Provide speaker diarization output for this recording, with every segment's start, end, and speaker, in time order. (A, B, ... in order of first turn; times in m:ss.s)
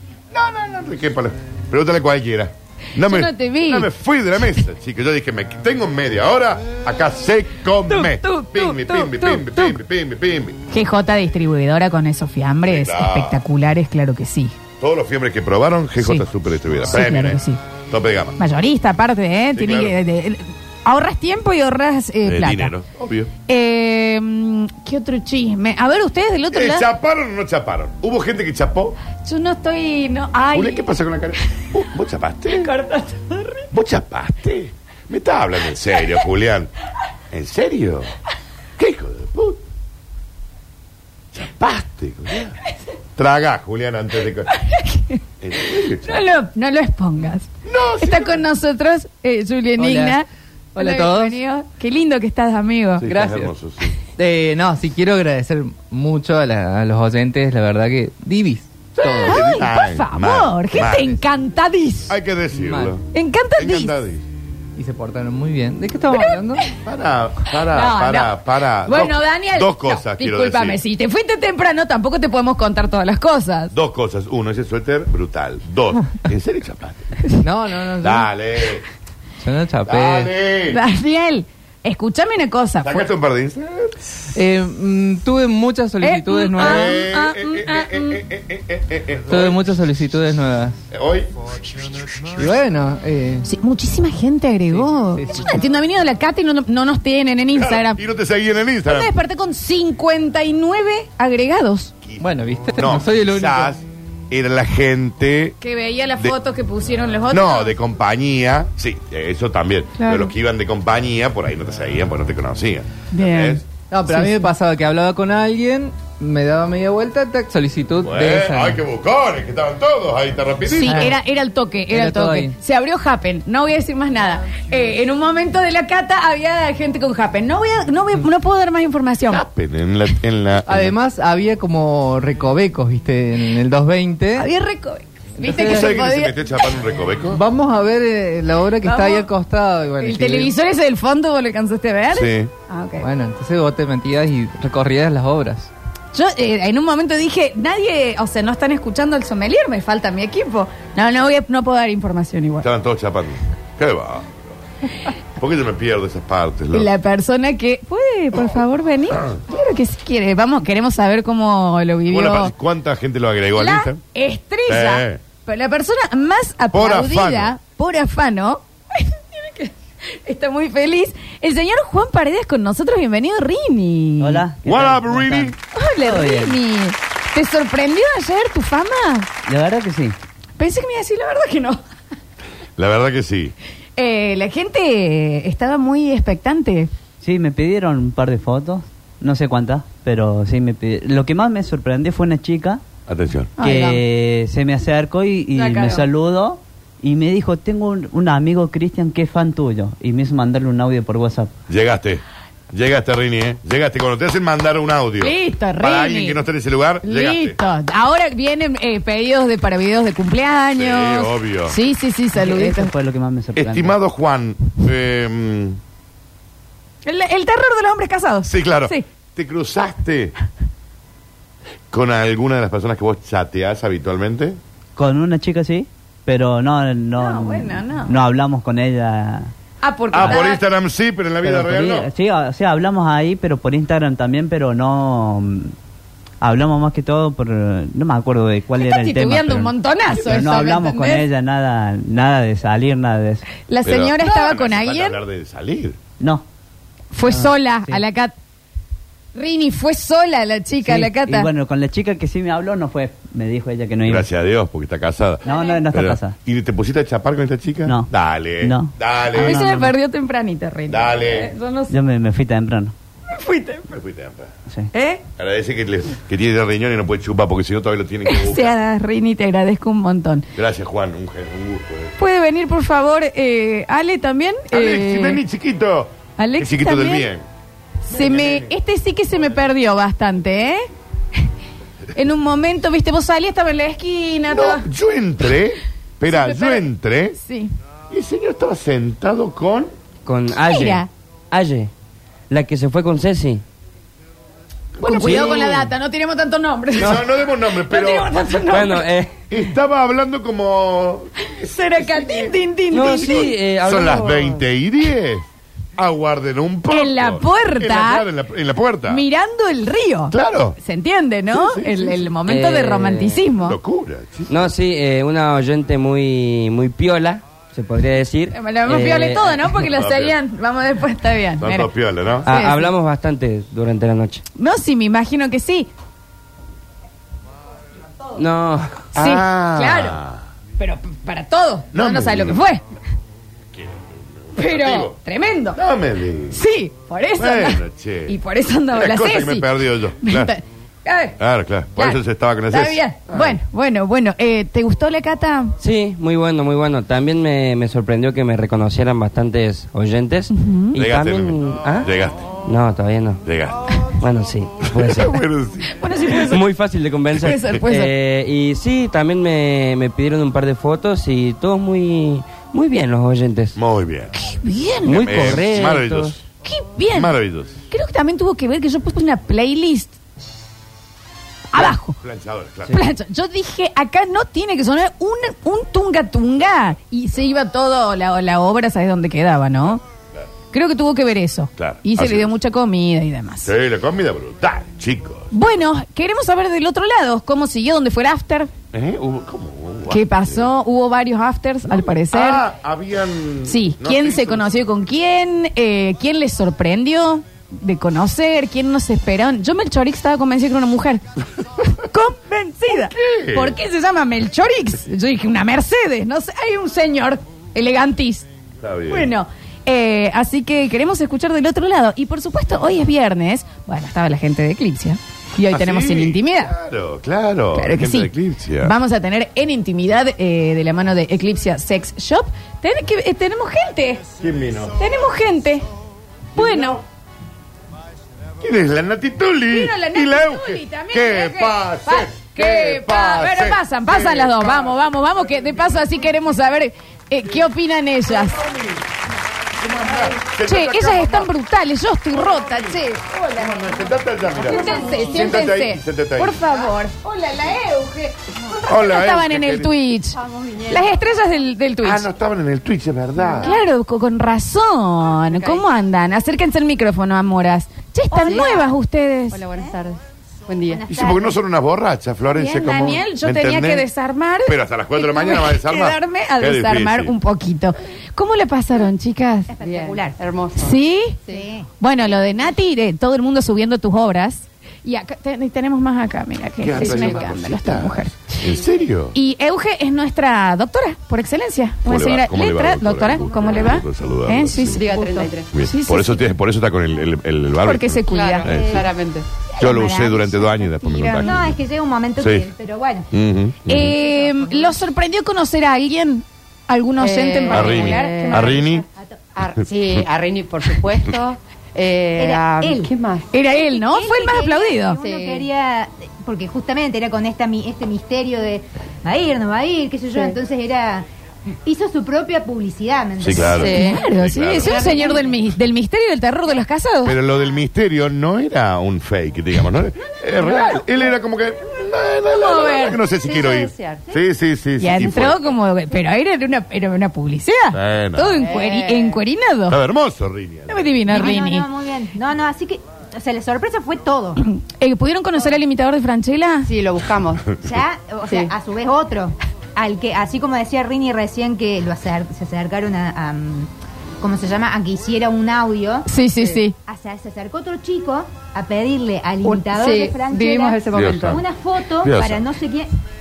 0:00.3-0:10.6 A
0:03.0-0:03.9 B
0:07.9-0:09.8 B
0:10.7-0:14.6 B
0:12.6-0:13.4 A
0:14.8-0:18.4 A
0:16.0-0:16.2 B
0:16.9-0:17.6 B
0:18.4-0:22.7 B
0:19.5-0:20.0 A
0:22.2-0:23.3 A
0:23.5-0:26.9 B
0:26.5-0:29.0 A
0:29.2-0:30.9 B
0:30.5-0:32.7 A
0:32.5-0:33.7 B
0:33.7-0:36.7 A
0:37.3-0:38.1 A
0:38.8-0:39.6 A
0:41.3-0:42.6 A
0:43.2-0:44.5 A
0:44.5-0:53.1 B
0:45.4-0:46.2 A
0:47.6-0:48.4 A
0:49.8-0:50.2 C
0:50.8-0:51.4 C
0:53.0-0:54.0 A
0:53.1-0:53.5 C
0:54.2-0:59.4 C
0:59.0-1:01.2 A
0:59.2-1:02.2 B
1:02.1-1:03.0 A
1:02.5-1:03.0 C
1:03.1-1:04.0 B
1:03.6-1:04.2 A
1:04.8-1:06.7 C
1:06.1-1:06.7 B
1:06.8-1:10.8 A
1:07.5-1:13.7 B
1:13.7-1:17.1 A
1:17.4-1:18.3 C
1:18.0-1:18.8 A
1:19.4-1:20.3 C
1:19.9-1:20.8 A
1:20.7-1:23.1 B
1:22.8-1:24.0 A
1:24.4-1:27.0 C
1:26.0-1:28.2 B
1:26.6-1:29.6 A
1:29.3-1:30.8 C
1:30.9-1:31.3 A
1:32.4-1:33.5 C
1:33.4-1:38.0 B
1:34.7-1:35.6 C
1:37.5-1:39.1 A
1:38.9-1:41.9 B
1:42.0-1:45.6 A
1:42.2-1:43.7 C
1:45.6-1:47.8 B
1:47.3-1:53.6 A
1:50.0-1:50.3 B
1:53.1-1:54.4 B
1:53.9-1:58.8 C
1:58.0-2:01.1 A
2:00.7-2:09.4 B
2:00.9-2:01.1 C
2:01.9-2:02.6 C
2:09.3-2:11.0 A
2:10.7-2:14.5 C
2:14.4-2:16.4 B
2:15.4-2:15.9 C
2:15.5-2:17.4 A
2:17.3-2:20.5 C
2:18.8-2:19.3 B
2:20.0-2:23.1 B
2:22.1-2:22.5 A
2:23.0-2:25.7 C
2:26.1-2:32.7 B
2:32.6-2:34.4 A
2:35.4-2:36.9 A
2:36.7-2:42.5 B
2:42.1-2:44.0 A
2:43.6-2:54.4 B
2:44.7-2:45.2 A
2:46.7-2:47.6 A
2:54.2-2:56.6 D
2:54.6-2:55.6 A
2:55.7-2:59.3 B
2:59.5-3:00.2 D
3:00.6-3:01.8 B
3:02.8-3:03.6 A
3:04.0-3:06.9 B
3:07.2-3:12.8 D
3:13.1-3:13.5 A
3:13.6-3:14.0 B
3:13.6-3:21.5 D
3:15.6-3:16.1 B
3:21.7-3:27.6 A
3:25.2-3:26.5 B
3:27.0-3:32.9 B
3:30.7-3:31.8 A
3:32.3-3:34.0 D
3:33.6-3:35.8 A
3:37.0-3:39.0 B
3:38.4-3:40.3 A
3:41.9-3:44.6 A
3:45.0-3:49.5 D
3:47.2-3:48.1 B
3:49.8-3:50.6 B
3:50.1-3:52.1 A
3:51.4-3:55.7 D
3:56.4-4:03.4 D
3:58.8-4:01.3 B
4:03.7-4:05.2 B
4:03.8-4:06.0 A
4:06.2-4:06.4 D
4:07.1-4:08.3 B
4:07.3-4:08.0 D
4:09.4-4:11.5 B
4:10.8-4:14.3 D
4:14.0-4:19.6 A
4:15.4-4:16.4 D
4:15.5-4:15.7 B
4:17.8-4:19.9 D
4:19.3-4:21.9 B
4:20.9-4:21.5 A
4:21.9-4:22.9 D
4:23.3-4:23.9 B
4:23.9-4:24.5 A
4:24.9-4:25.2 B
4:25.4-4:28.8 A
4:28.3-4:30.5 B
4:30.6-4:32.2 A
4:32.2-4:35.4 B
4:34.7-4:37.4 A
4:36.4-4:37.3 B
4:38.0-4:41.5 B
4:38.1-4:38.7 A
4:42.2-4:44.9 B
4:44.5-4:47.4 A
4:46.3-4:47.7 B
4:48.1-4:49.9 A
4:50.3-4:51.9 E
4:50.6-4:51.1 B
4:52.5-4:53.6 E
4:55.0-4:55.9 A
4:55.0-4:57.2 B
4:55.2-4:55.6 E
4:57.0-4:58.3 A
4:57.8-4:59.1 B
4:58.7-4:59.4 E
4:59.5-5:05.4 A
5:01.4-5:03.5 B
5:02.9-5:04.6 E
5:06.0-5:09.2 A
5:06.9-5:08.3 B
5:09.1-5:13.8 B
5:10.3-5:10.8 A
5:11.5-5:12.2 A
5:12.5-5:13.4 E
5:13.6-5:14.7 A
5:14.5-5:19.8 E
5:18.5-5:21.9 B
5:19.9-5:20.4 A
5:21.6-5:22.5 A
5:22.4-5:24.4 E
5:22.5-5:22.9 B
5:24.6-5:25.9 B
5:28.4-5:29.0 E
5:29.1-5:30.2 B
5:29.2-5:30.4 A
5:30.8-5:32.8 B
5:31.9-5:32.6 A
5:33.7-5:35.2 A
5:34.6-5:35.8 B
5:35.7-5:36.6 A
5:36.5-5:41.4 B
5:37.4-5:38.4 A
5:38.9-5:40.5 A
5:41.4-5:43.6 A
5:42.0-5:45.8 B
5:45.8-5:52.1 E
5:50.5-5:51.0 B
5:51.0-5:52.4 A
5:52.6-5:53.4 E
5:53.4-5:54.0 A
5:54.2-5:55.4 E
5:54.9-5:56.4 A
5:55.9-5:56.6 B
5:56.4-6:03.8 E
5:57.4-5:57.6 A
5:57.4-5:58.1 B
6:03.8-6:04.3 A
6:04.4-6:05.6 B
6:05.0-6:06.4 E
6:05.1-6:06.4 A
6:06.6-6:07.3 B
6:07.1-6:07.8 A
6:07.9-6:10.2 B
6:11.7-6:12.2 B
6:11.8-6:13.0 A
6:12.9-6:20.0 B
6:20.7-6:23.7 B
6:21.8-6:22.6 A
6:23.6-6:25.5 A
6:25.5-6:28.7 B
6:28.9-6:30.7 A
6:30.1-6:32.7 B
6:31.9-6:34.7 A
6:33.7-6:41.2 B
6:41.8-6:48.5 B
6:42.9-6:43.8 A
6:48.8-6:49.3 A
6:49.1-6:56.7 B
6:55.7-6:58.9 A
6:57.7-7:04.2 B
7:04.4-7:05.0 A
7:05.0-7:05.9 B
7:06.6-7:07.0 B
7:06.6-7:07.0 A
7:08.6-7:15.0 A
7:09.7-7:18.6 B
7:18.3-7:19.0 A
7:19.8-7:21.5 A
7:20.6-7:23.7 B
7:22.3-7:26.6 A
7:24.6-7:32.3 B
7:28.9-7:29.9 A
7:30.4-7:31.2 F
7:32.0-7:33.8 A
7:33.4-7:33.7 F
7:33.6-7:39.6 B
7:35.5-7:35.9 F
7:38.3-7:38.9 G
7:38.4-7:38.9 F
7:39.5-7:41.1 F
7:40.9-7:41.6 G
7:41.1-7:44.1 A
7:42.5-7:49.7 B
7:44.6-7:47.4 A
7:49.7-7:50.4 G
7:49.8-7:51.7 F
7:50.8-7:51.4 B
7:51.5-7:51.9 G
7:52.0-7:58.6 B
7:56.8-7:59.4 A
7:57.0-7:57.4 F
7:58.6-7:58.9 F
7:59.3-8:05.2 B
8:02.0-8:05.0 A
8:04.8-8:05.7 F
8:05.0-8:05.5 G
8:05.7-8:09.0 A
8:05.8-8:06.5 B
8:07.8-8:08.8 B
8:08.3-8:09.5 F
8:08.7-8:09.1 G
8:09.7-8:11.6 B
8:09.8-8:11.8 A
8:11.4-8:13.3 G
8:12.4-8:12.7 A
8:13.3-8:14.2 A
8:13.9-8:18.8 B
8:14.1-8:15.0 G
8:17.2-8:19.0 F
8:17.7-8:19.0 A
8:19.1-8:19.4 G
8:19.6-8:23.5 F
8:22.4-8:31.3 G
8:23.5-8:25.2 B
8:25.2-8:25.7 F
8:31.8-8:34.2 G
8:33.4-8:35.1 A
8:33.6-8:34.3 F
8:33.7-8:37.4 B
8:34.8-8:35.5 F
8:35.0-8:35.5 G
8:37.2-8:45.6 A
8:40.6-8:41.2 F
8:42.5-8:43.2 B
8:42.9-8:44.3 F
8:45.0-8:50.0 B
8:47.9-8:48.7 A
8:48.6-8:49.4 F
8:49.9-8:51.2 A
8:50.9-8:51.9 B
8:51.3-8:54.6 G
8:54.6-8:56.9 B
8:56.8-8:57.8 F
8:57.8-9:06.3 G
8:58.5-8:58.7 F
9:06.3-9:07.0 B
9:07.0-9:13.1 G
9:09.6-9:11.6 F
9:11.1-9:11.6 A
9:12.2-9:12.6 A